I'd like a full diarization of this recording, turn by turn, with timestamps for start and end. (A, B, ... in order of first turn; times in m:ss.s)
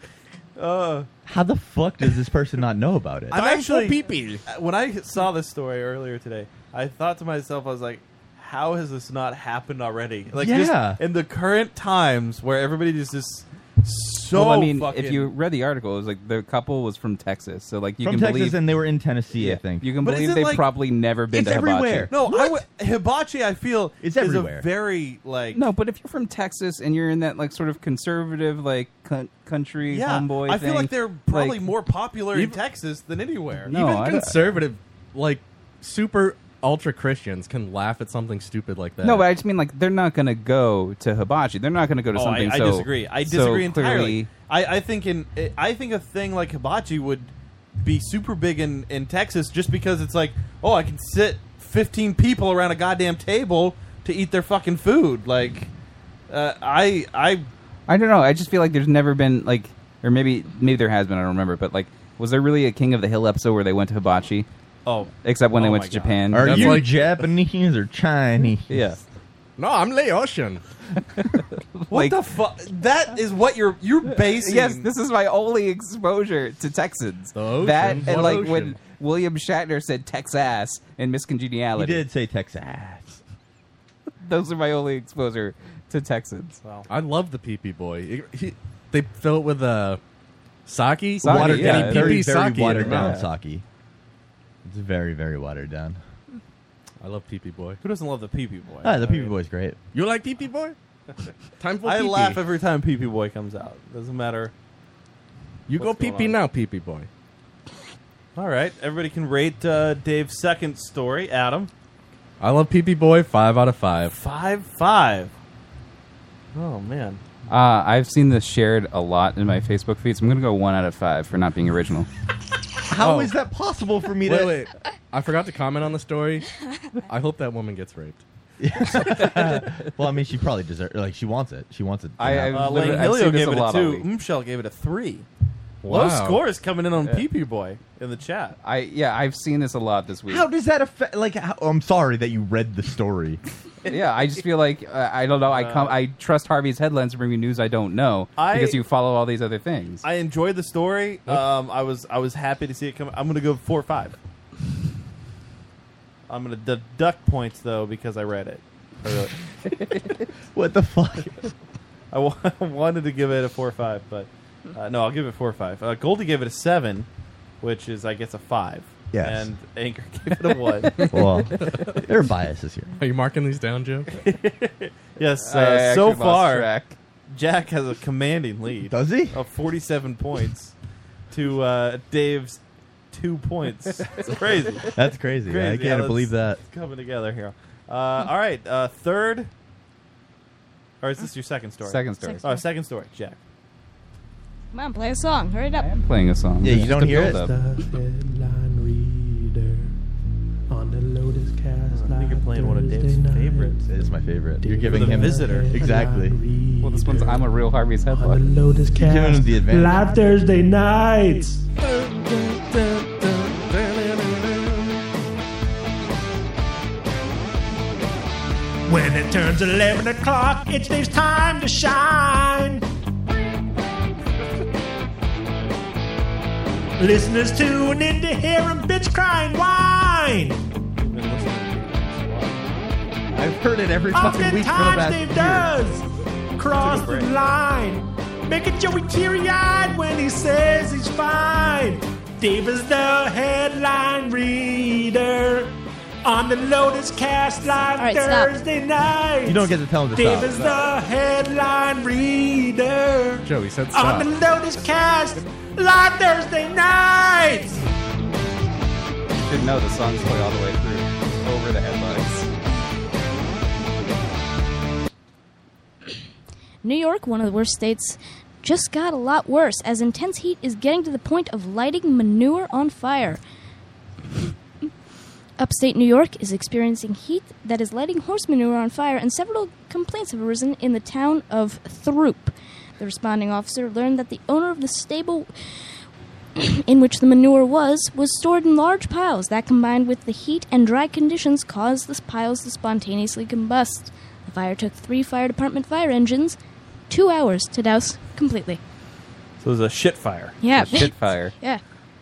0:00.6-0:01.1 A
0:01.3-0:03.4 B
0:03.3-0:15.3 A
0:03.3-0:04.4 C
0:10.4-0:11.0 B
0:14.3-0:18.6 D
0:18.0-0:19.9 B
0:19.3-0:22.1 D
0:20.0-0:20.6 A
0:21.3-0:22.5 B
0:22.1-0:25.6 A
0:24.0-0:24.7 B
0:25.5-0:31.7 D
0:29.9-0:33.7 A
0:32.3-0:32.6 C
0:33.7-0:34.6 D
0:33.7-0:39.3 C
0:39.0-0:44.3 D
0:42.2-0:55.7 A
0:56.3-0:57.5 A
0:57.9-1:04.5 D
1:04.8-1:06.2 A
1:05.2-1:06.8 D
1:06.3-1:09.0 B
1:06.4-1:07.2 C
1:08.7-1:09.0 D
1:09.6-1:10.6 C
1:11.8-1:12.2 D
1:11.9-1:14.9 A
1:14.4-1:22.0 D
1:17.4-1:18.8 C
1:21.8-1:23.2 B
1:24.2-1:26.6 D
1:26.6-1:26.9 A
1:26.9-1:30.0 C
1:30.7-1:33.2 C
1:31.2-1:33.3 D
1:31.2-1:33.6 B
1:34.6-1:36.0 B
1:37.0-1:37.8 C
1:37.8-1:39.3 A
1:38.8-1:39.8 B
1:39.9-1:40.8 C
1:41.6-1:42.4 C
1:41.8-1:44.5 A
1:45.7-1:47.1 C
1:45.8-1:46.4 A
1:48.4-1:51.7 A
1:52.4-1:54.2 C
1:54.1-1:55.3 A
1:56.6-1:57.2 A
1:57.5-2:02.1 D
2:02.9-2:04.7 B
2:03.0-2:03.4 C
2:04.2-2:08.2 C
2:08.6-2:13.1 B
2:12.2-2:14.1 D
2:12.5-2:15.3 A
2:15.8-2:16.4 C
2:15.9-2:18.6 A
2:18.6-2:20.5 D
2:20.3-2:23.4 B
2:23.9-2:30.0 D
2:25.5-2:26.0 A
2:28.4-2:28.8 A
2:30.0-2:34.2 A
2:36.3-2:39.3 A
2:40.5-2:41.4 B
2:42.1-2:47.1 A
2:47.6-2:51.1 A
2:49.1-2:49.5 B
2:51.1-2:52.9 B
2:53.0-2:54.1 C
2:54.1-2:56.7 A
2:55.4-2:57.0 D
2:57.3-3:00.7 A
2:58.9-2:59.4 B
3:01.3-3:04.9 A
3:04.9-3:06.6 B
3:05.5-3:09.5 A
3:11.0-3:13.4 A
3:11.8-3:12.5 D
3:12.2-3:12.6 E
3:14.7-3:15.9 E
3:15.8-3:17.6 D
3:16.6-3:17.4 B
3:16.7-3:20.0 F
3:20.7-3:23.9 F
3:21.9-3:23.8 A
3:23.9-3:26.4 B
3:24.6-3:31.6 F
3:24.8-3:25.9 A
3:26.8-3:28.4 D
3:29.0-3:30.0 B
3:31.9-3:34.9 C
3:38.9-3:42.8 F
3:47.0-3:50.6 F
3:51.0-3:52.8 A
3:53.3-3:55.7 B
3:54.1-4:17.8 F
3:56.8-3:57.3 D
4:08.0-4:08.5 E
4:09.4-4:10.6 B
4:10.5-4:10.9 D
4:13.4-4:14.4 C
4:19.4-4:22.5 D
4:26.8-4:33.4 E
4:35.6-4:45.5 E
4:46.6-4:56.6 E
4:57.1-4:58.8 E
4:59.6-5:00.6 A
5:00.6-5:01.8 E
5:00.7-5:01.6 D